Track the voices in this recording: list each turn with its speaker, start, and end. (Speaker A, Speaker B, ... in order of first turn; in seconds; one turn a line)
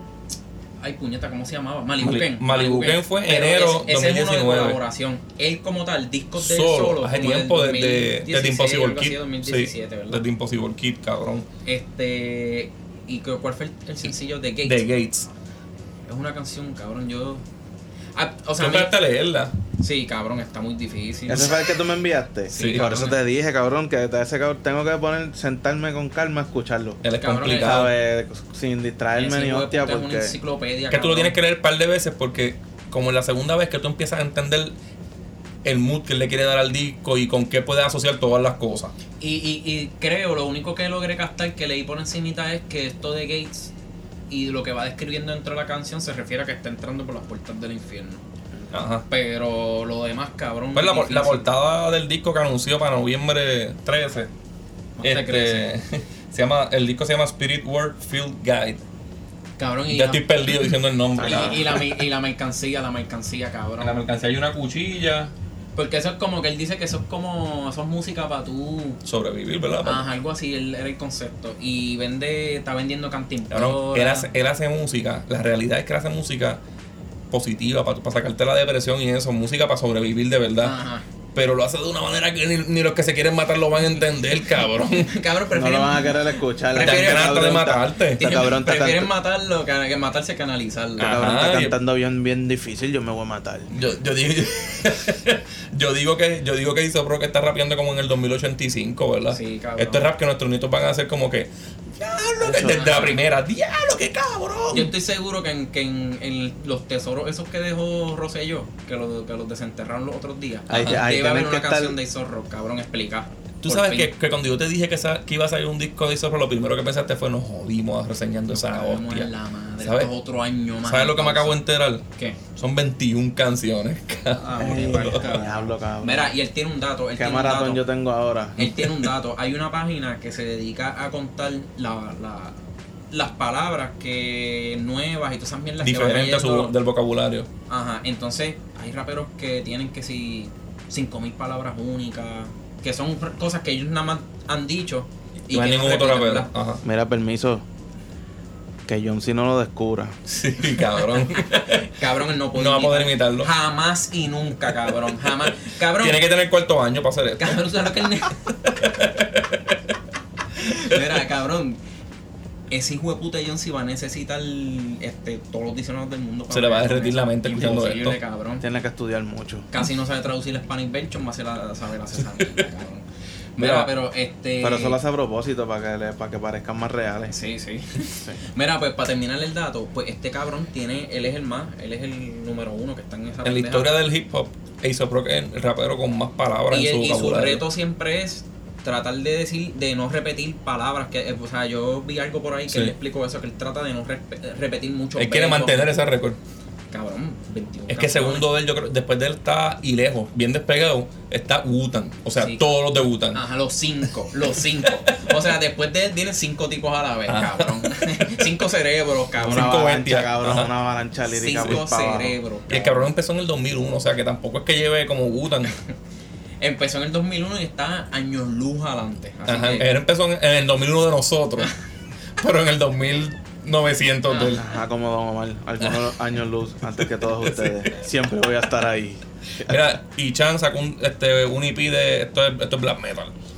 Speaker A: 0.8-10.2
Speaker B: 2.0-4.8
Speaker B: 6.4-11.5
Speaker A: 11.6-14.8
Speaker B: 14.6-15.3
Speaker A: 16.1-17.4
Speaker A: 18.1-18.9
Speaker B: 18.6-19.5
Speaker A: 19.8-21.6
Speaker C: 21.3-27.0
Speaker A: 22.5-23.1
Speaker B: 22.5-23.1
Speaker B: 27.0-27.9
Speaker A: 27.2-27.9
Speaker C: 27.6-30.4
Speaker A: 29.1-31.4
Speaker B: 30.9-34.7
Speaker B: 35.6-38.9
Speaker A: 39.2-43.7
Speaker A: 44.3-48.2
Speaker B: 48.7-49.1
Speaker A: 49.1-51.5
Speaker B: 50.7-54.3
Speaker A: 55.0-55.7
Speaker B: 55.0-58.8
Speaker A: 59.6-60.5
Speaker B: 59.9-62.0
Speaker A: 61.2-64.0
Speaker C: 61.2-61.5
Speaker B: 63.8-65.3
Speaker A: 65.8-69.0
Speaker B: 69.0-70.1
Speaker A: 69.8-74.3
Speaker B: 73.5-76.6
Speaker B: 77.3-80.8
Speaker A: 80.6-81.0
Speaker B: 81.3-85.1
Speaker A: 84.8-87.5
Speaker C: 85.5-89.1
Speaker B: 86.7-88.5
Speaker A: 88.2-91.2
Speaker B: 91.0-91.8
Speaker C: 91.0-93.7
Speaker B: 93.7-104.9
Speaker A: 99.3-100.1
Speaker C: 102.4-103.0
Speaker A: 102.6-103.2
Speaker A: 104.7-114.1
Speaker C: 110.7-112.0
Speaker B: 110.7-111.0
Speaker B: 113.6-120.1
Speaker A: 118.5-121.6
Speaker B: 120.8-125.3
Speaker A: 124.4-127.8
Speaker C: 124.5-126.3
Speaker C: 127.1-128.7
Speaker A: 128.6-132.6
Speaker B: 128.6-129.1
Speaker A: 133.1-136.7
Speaker B: 135.8-137.5
Speaker A: 137.7-146.5
Speaker B: 145.5-146.8
Speaker C: 146.8-147.6
Speaker C: 148.9-150.2
Speaker B: 150.3-151.9
Speaker A: 150.9-156.2
Speaker B: 152.5-153.5
Speaker B: 156.0-157.8
Speaker A: 157.4-158.4
Speaker B: 158.6-159.8
Speaker A: 160.6-161.8
Speaker A: 162.7-168.6
Speaker B: 166.5-168.2
Speaker C: 168.6-169.7
Speaker A: 169.7-173.0
Speaker B: 173.6-173.9
Speaker A: 173.6-175.0
Speaker C: 174.6-177.3
Speaker A: 177.3-183.9
Speaker B: 183.4-187.6
Speaker A: 186.7-195.9
Speaker B: 192.7-192.9
Speaker B: 195.2-196.4
Speaker A: 196.9-198.5
Speaker B: 197.9-203.4
Speaker A: 202.4-202.7
Speaker A: 203.3-209.7
Speaker B: 204.8-205.3
Speaker B: 207.3-208.5
Speaker B: 209.4-210.7
Speaker C: 209.4-212.4
Speaker A: 211.3-213.1
Speaker B: 212.7-215.7
Speaker A: 216.6-219.9
Speaker B: 219.5-221.7
Speaker B: 222.4-224.6
Speaker A: 224.3-224.6
Speaker C: 224.6-229.9
Speaker B: 227.4-227.9
Speaker B: 229.6-233.3